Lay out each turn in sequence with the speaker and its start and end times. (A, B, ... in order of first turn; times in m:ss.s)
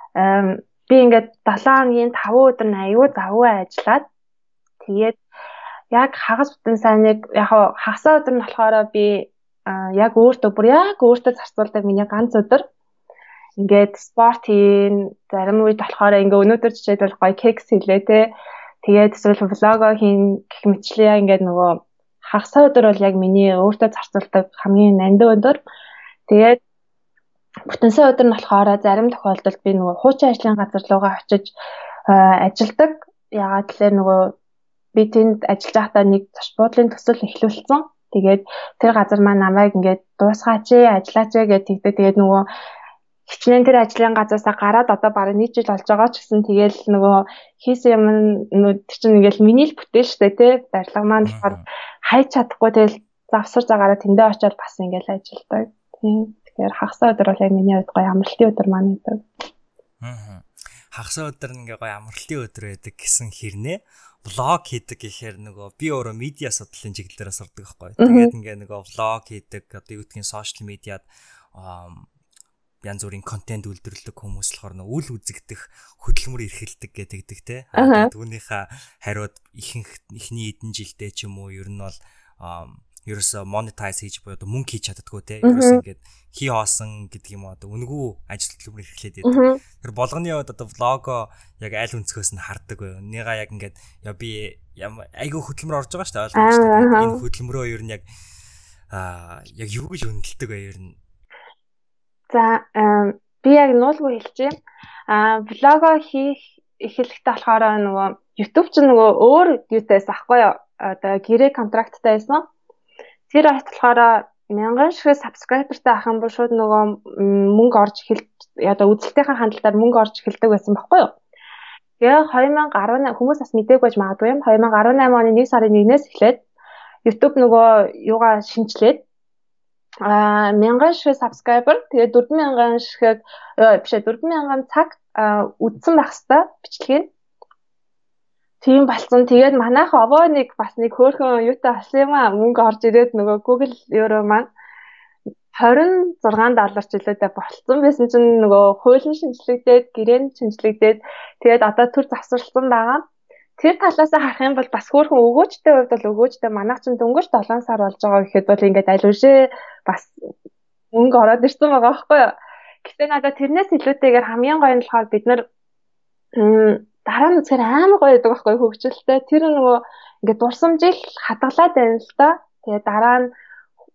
0:00.2-0:04.1 A
0:04.8-0:05.2 A
0:05.9-0:12.6 A
0:13.6-0:18.3 A
0:18.8-0:25.6 A
0:26.3-0:26.6 A
0:27.7-0:31.5 A
0:32.1-0:34.3 A
0:35.0-0:42.4 A
0:43.3-0:59.2 A
0:51.2-0:51.6 B
1:00.0-1:12.1 B
1:08.0-1:08.3 A
1:12.8-1:38.0 B
1:17.8-1:18.1 A
1:25.4-1:25.8 A
1:29.2-1:29.6 A
1:36.4-1:37.2 A
1:38.9-1:41.0 B
1:42.3-1:44.5 A
1:45.1-1:52.4 A
1:53.3-2:01.1 A
2:02.0-2:06.4 A
2:07.0-2:09.0 A
2:10.1-2:17.1 A
2:18.6-2:24.5 A
2:25.5-2:33.0 A
2:33.6-2:40.1 A
2:40.9-2:45.4 A
2:46.4-2:53.3 A